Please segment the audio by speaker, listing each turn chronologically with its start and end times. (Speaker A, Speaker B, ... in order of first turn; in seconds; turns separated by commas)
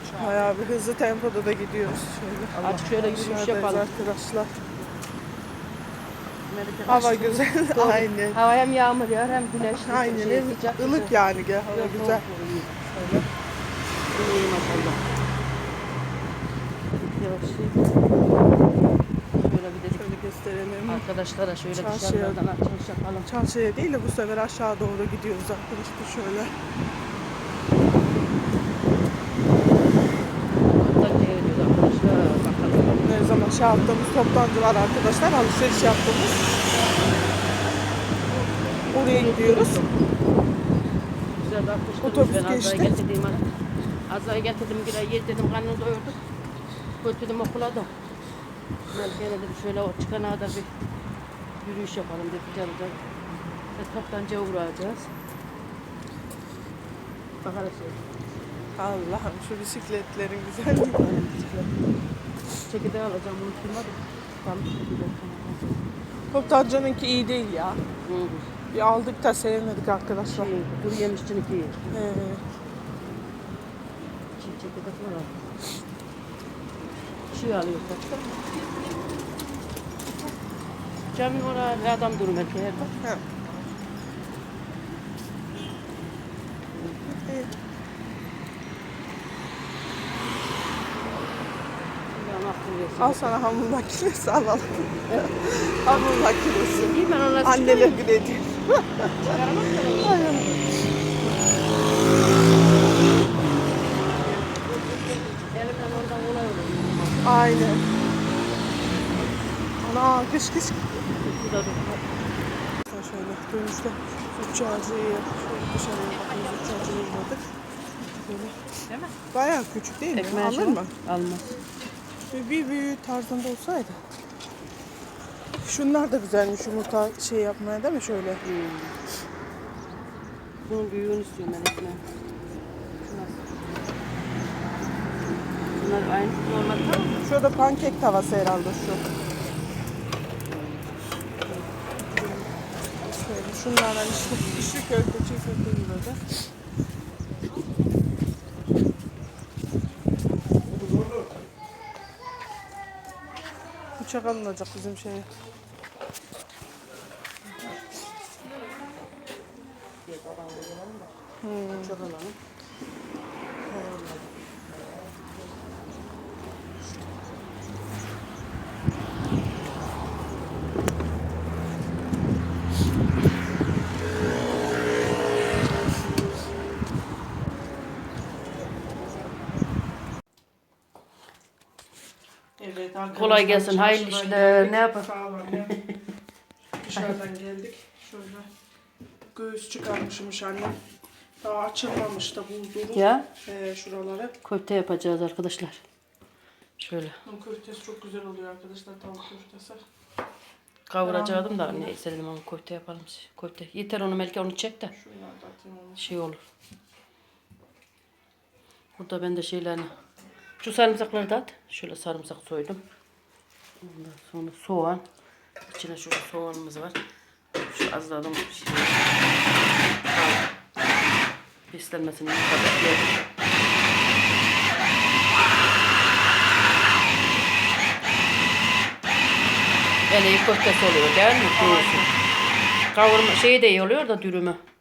Speaker A: 0.1-4.6, Speaker B: 2.5-3.9, Speaker B: 6.5-11.2, Speaker A: 6.9-8.4, Speaker A: 9.8-12.2, Speaker B: 11.7-12.9, Speaker A: 12.8-13.3, Speaker B: 14.1-15.0, Speaker B: 17.0-17.8, Speaker B: 19.4-20.1, Speaker A: 20.0-21.1, Speaker B: 20.9-23.3, Speaker A: 21.7-22.4, Speaker A: 23.2-26.5, Speaker B: 30.7-33.1, Speaker A: 33.0-36.4, Speaker A: 38.9-39.8, Speaker B: 39.0-40.0, Speaker B: 41.4-43.5, Speaker A: 42.0-42.9, Speaker B: 44.1-46.2, Speaker B: 47.0-47.9, Speaker B: 48.9-50.7, Speaker B: 51.6-53.0, Speaker B: 53.7-55.1, Speaker B: 57.4-58.0, Speaker A: 58.8-61.0, Speaker B: 60.9-61.7, Speaker B: 62.7-65.8, Speaker A: 66.3-67.8, Speaker B: 68.0-68.5, Speaker A: 68.7-70.5, Speaker B: 70.3-71.9, Speaker A: 71.9-72.4, Speaker B: 74.4-75.5, Speaker B: 77.3-78.3, Speaker B: 81.1-83.0, Speaker B: 86.7-87.1, Speaker A: 87.1-87.5, Speaker B: 92.1-93.5, Speaker A: 93.0-99.3, Speaker B: 95.1-98.1, Speaker B: 99.2-100.5, Speaker A: 100.0-100.9, Speaker B: 104.3-107.3, Speaker A: 107.2-107.8, Speaker A: 109.8-110.9, Speaker B: 111.1-112.0, Speaker A: 112.9-117.5, Speaker A: 118.2-118.6, Speaker A: 119.3-120.9, Speaker B: 120.1-121.5, Speaker A: 122.3-124.0, Speaker A: 125.6-128.4, Speaker B: 128.4-129.0, Speaker B: 130.7-132.0, Speaker B: 133.0-133.5, Speaker B: 135.8-137.3, Speaker A: 137.2-139.1, Speaker B: 140.4-140.9, Speaker A: 142.2-142.5, Speaker A: 143.1-146.3, Speaker A: 154.0-155.3, Speaker B: 160.1-161.1, Speaker A: 161.4-162.0, Speaker B: 161.8-162.4, Speaker B: 163.7-165.3, Speaker A: 182.6-185.8, Speaker B: 183.1-185.1, Speaker B: 185.6-185.9, Speaker A: 186.8-188.5, Speaker A: 189.3-190.8, Speaker A: 191.4-194.3, Speaker B: 192.9-193.3, Speaker B: 194.4-195.8, Speaker B: 196.8-197.2, Speaker A: 197.3-199.8, Speaker B: 200.9-204.9, Speaker A: 201.0-201.9, Speaker A: 204.9-206.1, Speaker B: 206.0-206.4, Speaker B: 209.0-209.9, Speaker B: 210.6-212.8, Speaker B: 213.8-215.0, Speaker B: 215.7-217.0, Speaker B: 217.6-219.3, Speaker B: 220.1-220.5, Speaker B: 221.7-223.2, Speaker B: 230.1-232.0, Speaker A: 231.5-232.1, Speaker B: 232.9-234.6